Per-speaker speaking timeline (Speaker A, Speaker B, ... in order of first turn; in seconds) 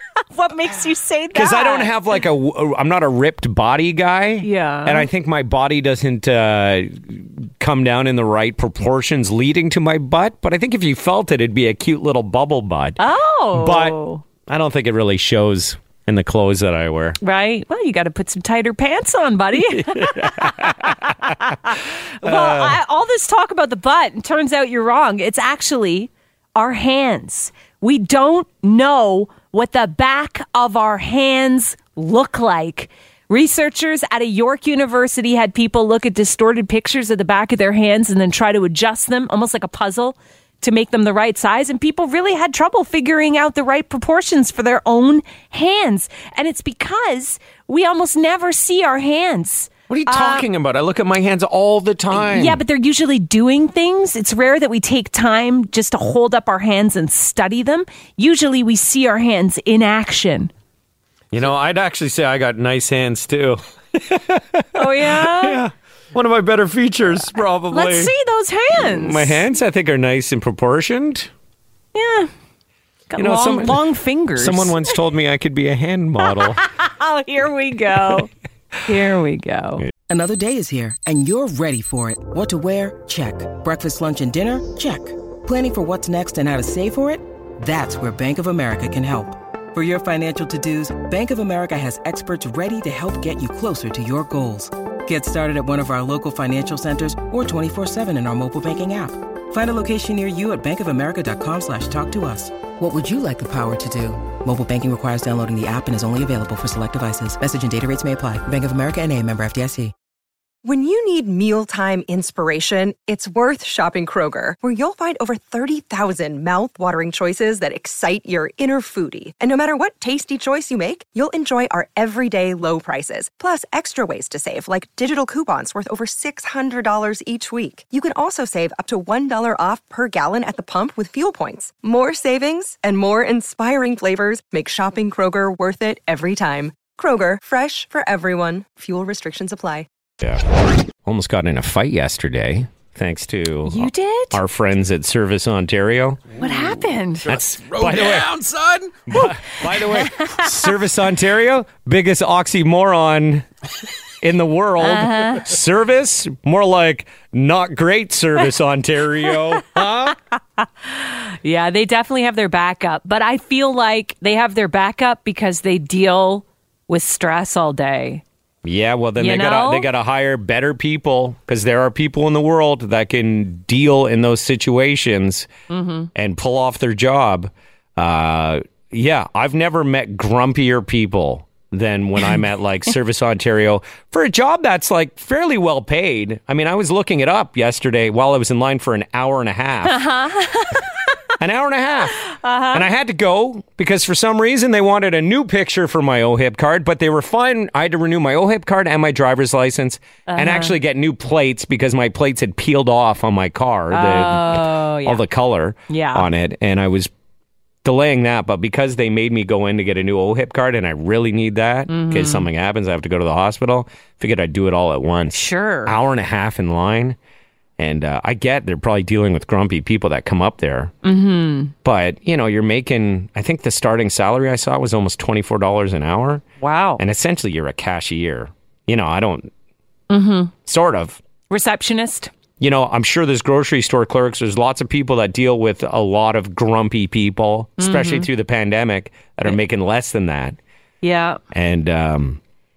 Speaker A: 0.3-1.9, 4.4-5.1, 13.0-14.2, 17.2-50.5, 52.1-60.5, 64.7-65.6, 67.7-69.4, 71.9-72.3, 73.1-74.8, 76.2-78.3, 78.8-79.8, 143.6-144.4, 146.4-147.3, 149.2-150.4, 154.8-155.4, 160.6-168.2, 169.2-169.9, 175.7-176.1, 189.8-190.9, 192.2-192.8, 200.3-200.7, 203.9-205.2, 205.9-206.3, 211.9-212.5, 215.3-215.9, 221.0-221.7, 226.6-227.0, 230.1-230.5, 231.5-232.3, 237.8-238.3, 241.0-241.4
Speaker B: 1.3-13.0, 13.5-17.2, 19.6-21.5, 22.2-22.8, 49.9-52.6, 61.3-68.1, 68.7-71.3, 73.2-73.8, 74.3-76.6, 140.2-140.4, 141.0-146.2, 147.3-148.3, 149.1-153.5, 154.2-160.2, 168.6-175.5, 176.1-190.1, 191.4-192.2, 192.7-207.1, 207.8-217.2, 217.8-220.9, 221.8-226.4, 227.0-229.5, 230.6-231.2, 232.6-240.6, 241.5-242.4
Speaker C: 80.1-109.9
Speaker D: 110.6-139.9
Speaker E: 146.4-149.0